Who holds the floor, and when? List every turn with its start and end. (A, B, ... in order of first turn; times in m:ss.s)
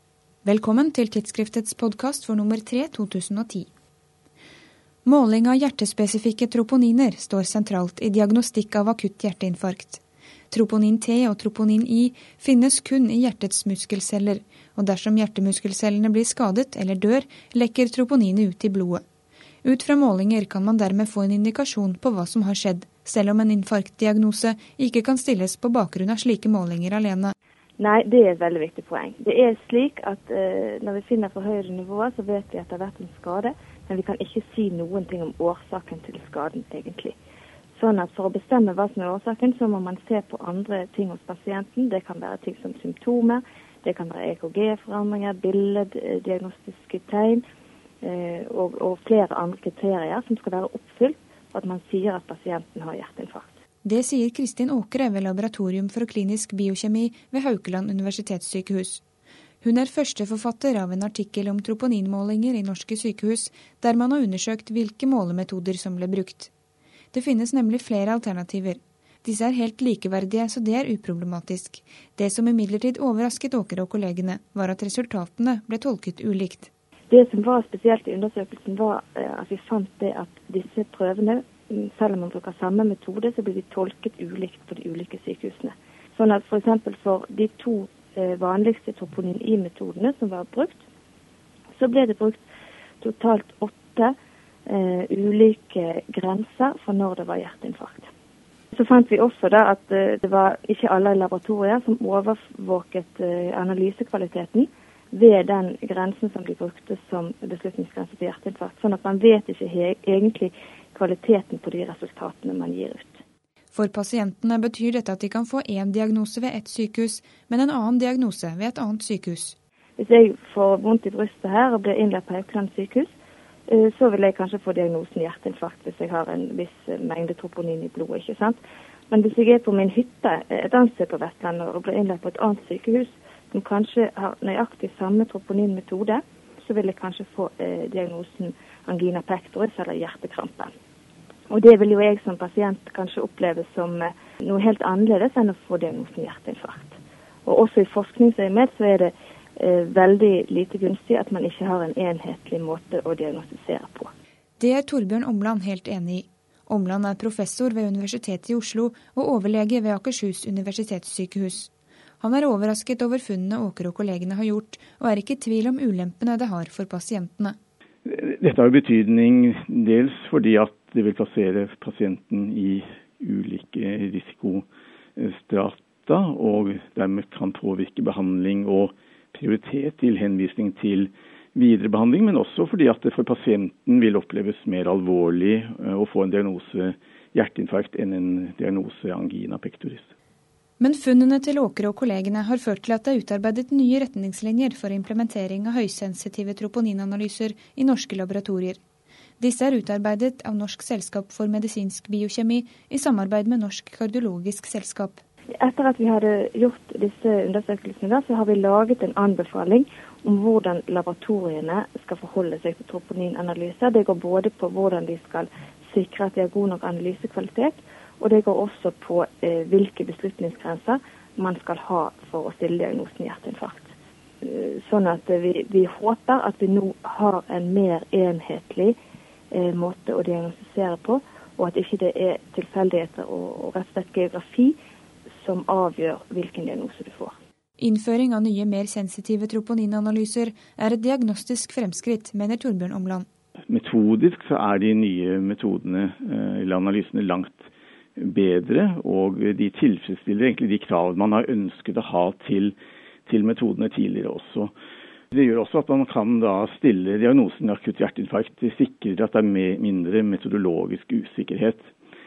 0:00.4-0:03.7 A
0:05.0-0:19.0 A
0:19.6-0:27.3 A
0:27.8-0:37.2 B
0:37.8-0:47.4 B
0:48.0-0:53.6 B
0:53.8-0:59.0 A
0:59.6-1:06.5 A
1:07.1-1:16.7 A
1:17.1-1:30.8 B
1:31.8-1:32.4 B
1:33.0-1:34.1 B
1:34.7-1:38.1 B
1:38.7-1:53.2 B
1:53.7-1:59.6 A
2:00.0-2:03.1 B
2:03.7-2:08.6 B
2:09.1-2:20.7 B
2:21.5-2:34.1 B
2:34.6-2:47.6 A
2:48.1-2:54.6 C
2:55.2-3:10.1 C
3:10.8-3:18.8 A
3:19.4-3:25.2 A
3:25.6-3:49.0 B
3:49.5-3:54.8 B
3:55.4-3:57.4 B
3:57.8-4:03.3 A
4:03.7-4:12.8 C
4:13.3-4:14.7 C
4:15.3-4:21.9 C